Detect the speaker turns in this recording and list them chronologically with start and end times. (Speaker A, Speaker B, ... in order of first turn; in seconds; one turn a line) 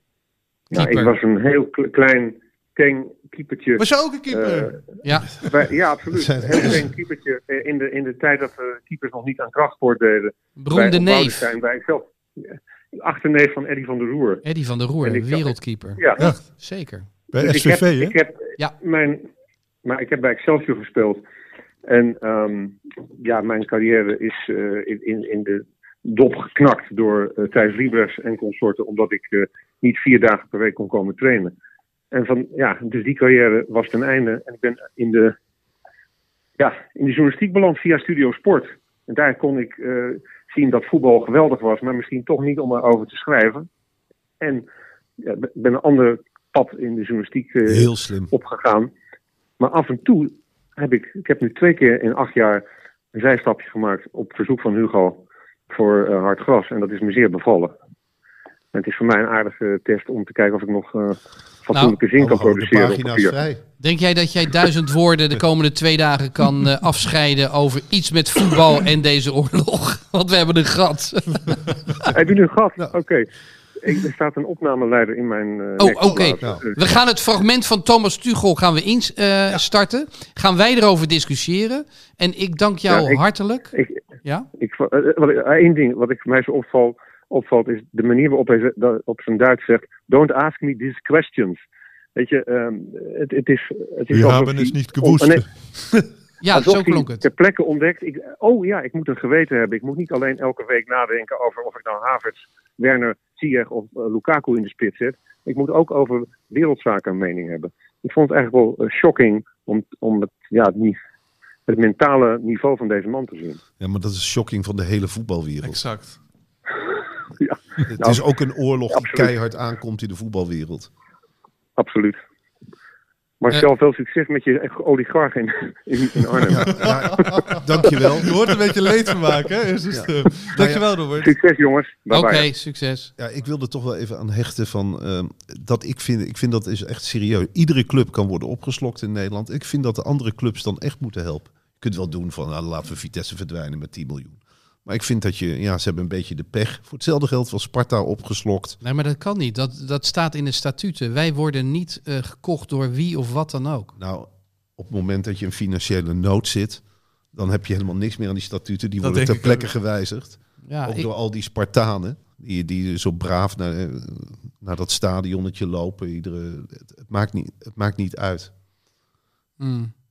Speaker A: 0.7-4.8
Speaker B: 0.7-1.1
Speaker C: 3.8-4.8
Speaker B: 5.0-5.3
Speaker A: 5.4-14.4
Speaker D: 6.1-6.9
Speaker B: 10.6-11.5
Speaker B: 14.4-17.1
Speaker A: 15.0-16.2
Speaker E: 17.3-18.2
Speaker A: 17.4-19.3
Speaker A: 19.9-21.2
Speaker A: 21.9-31.5
Speaker A: 32.1-35.4
Speaker A: 36.6-43.7
Speaker A: 44.4-44.7
Speaker A: 45.2-48.9
Speaker D: 47.7-48.3
Speaker A: 49.6-57.7
Speaker A: 58.7-63.4
Speaker D: 62.2-63.6
Speaker B: 63.8-72.1
Speaker A: 72.1-73.3
Speaker A: 73.8-76.7
Speaker B: 75.8-84.5
Speaker A: 82.9-83.2
Speaker A: 83.7-84.0
Speaker A: 84.6-91.6
Speaker A: 92.2-95.4
Speaker E: 94.1-95.5
Speaker B: 96.4-97.2
Speaker A: 96.5-111.0
Speaker A: 111.7-113.6
Speaker D: 113.8-115.8
Speaker C: 115.6-116.2
Speaker A: 117.4-118.2
Speaker D: 117.9-120.9
Speaker A: 118.9-119.3
Speaker A: 121.8-122.2
Speaker A: 123.4-127.2
Speaker D: 126.5-128.4
Speaker C: 128.2-131.3
Speaker D: 129.9-130.8
Speaker A: 131.2-132.5
Speaker B: 132.1-133.1
Speaker D: 133.2-148.8
Speaker B: 148.8-153.9
Speaker D: 154.0-156.8
Speaker D: 157.3-168.5
Speaker C: 159.0-159.7
Speaker B: 160.7-161.1
Speaker B: 169.6-169.9